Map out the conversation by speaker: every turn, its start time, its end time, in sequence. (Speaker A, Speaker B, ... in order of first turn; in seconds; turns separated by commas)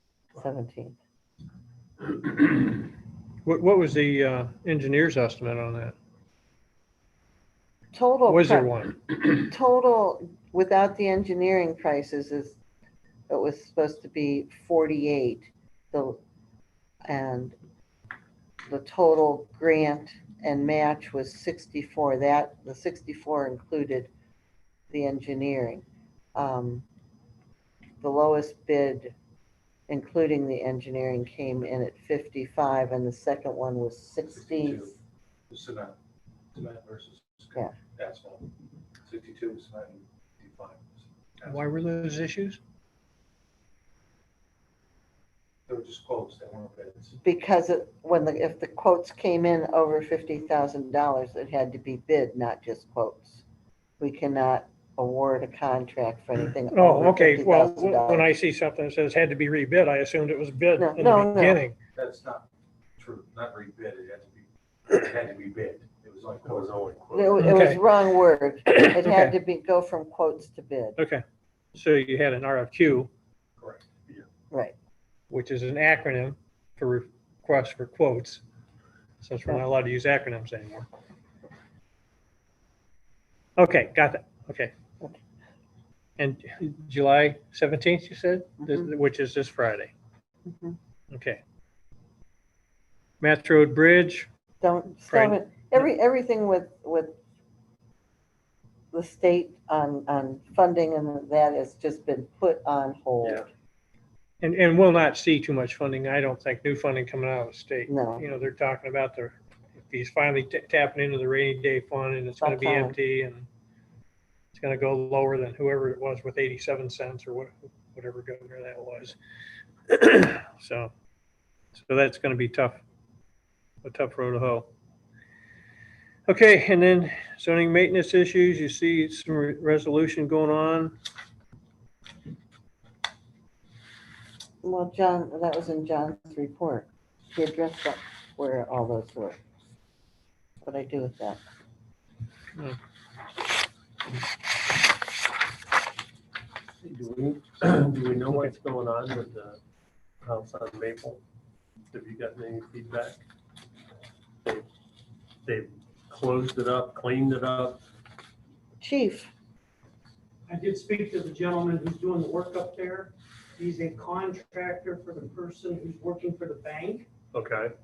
Speaker A: 0.4-1.0, Speaker B: 3.4-5.9, Speaker A: 7.9-12.6, Speaker B: 8.3-9.0, Speaker A: 13.3-16.2, Speaker A: 17.1-17.6, Speaker A: 18.7-24.1, Speaker A: 24.9-25.9, Speaker A: 26.4-26.9, Speaker A: 28.0-29.1, Speaker A: 29.9-34.9, Speaker C: 34.3-35.0, Speaker C: 35.5-36.0, Speaker C: 36.5-38.5, Speaker C: 39.1-41.7, Speaker B: 41.4-42.6, Speaker C: 45.7-47.2, Speaker A: 47.2-53.4, Speaker A: 54.0-58.3, Speaker B: 56.7-61.8, Speaker A: 60.8-61.6, Speaker C: 62.0-62.5, Speaker C: 63.0-67.0, Speaker D: 66.4-67.7, Speaker A: 67.1-71.0, Speaker B: 67.4-67.8, Speaker B: 68.7-69.3, Speaker B: 71.0-73.1, Speaker B: 75.3-78.4, Speaker B: 79.2-80.9, Speaker B: 83.6-84.7, Speaker B: 86.2-89.9, Speaker A: 88.6-88.9, Speaker A: 90.5-90.8, Speaker B: 91.1-91.4, Speaker B: 93.2-94.3, Speaker A: 94.6-97.2, Speaker B: 95.1-95.9, Speaker A: 98.9-103.5, Speaker B: 104.4-113.5, Speaker A: 107.9-108.3, Speaker A: 112.4-113.0, Speaker B: 114.5-119.2, Speaker B: 119.9-120.9, Speaker B: 121.8-122.8, Speaker B: 123.8-124.7, Speaker B: 126.3-131.0, Speaker A: 134.6-139.4, Speaker A: 140.6-141.4, Speaker D: 146.8-149.6, Speaker D: 150.2-151.2, Speaker D: 151.9-153.2, Speaker D: 155.4-157.8, Speaker A: 158.8-159.3, Speaker E: 160.5-167.1, Speaker D: 167.3-167.7